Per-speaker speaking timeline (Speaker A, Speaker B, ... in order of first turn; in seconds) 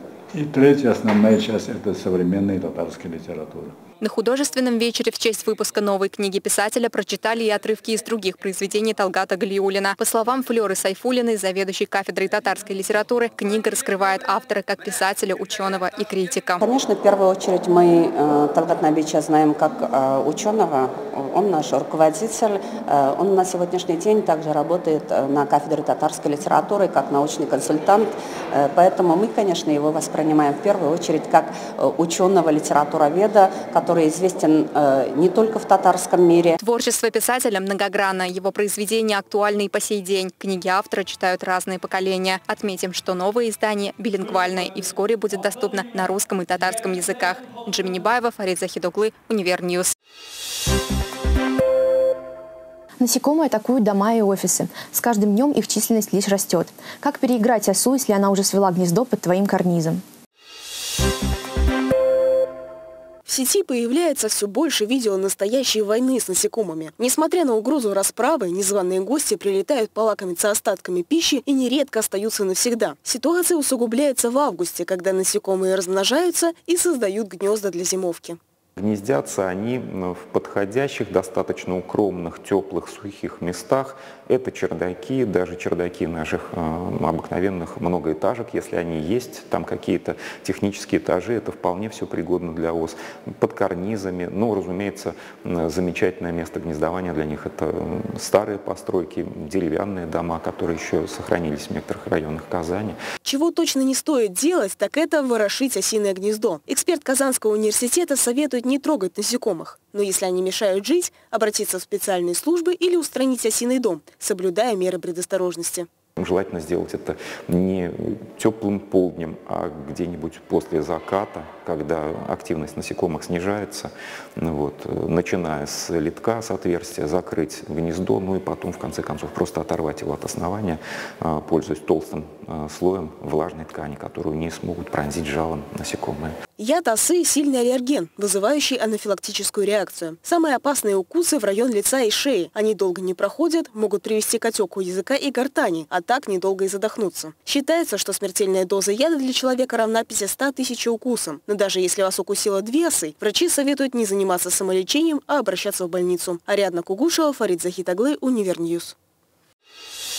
Speaker A: 0.3-3.8
Speaker B: 4.0-16.6, 36.6-49.9
Speaker C: 16.6-36.6
Speaker D: 53.0-60.0
Speaker E: 63.3-78.4, 103.2-115.9, 136.6-158.9
Speaker F: 78.8-103.0, 116.2-136.3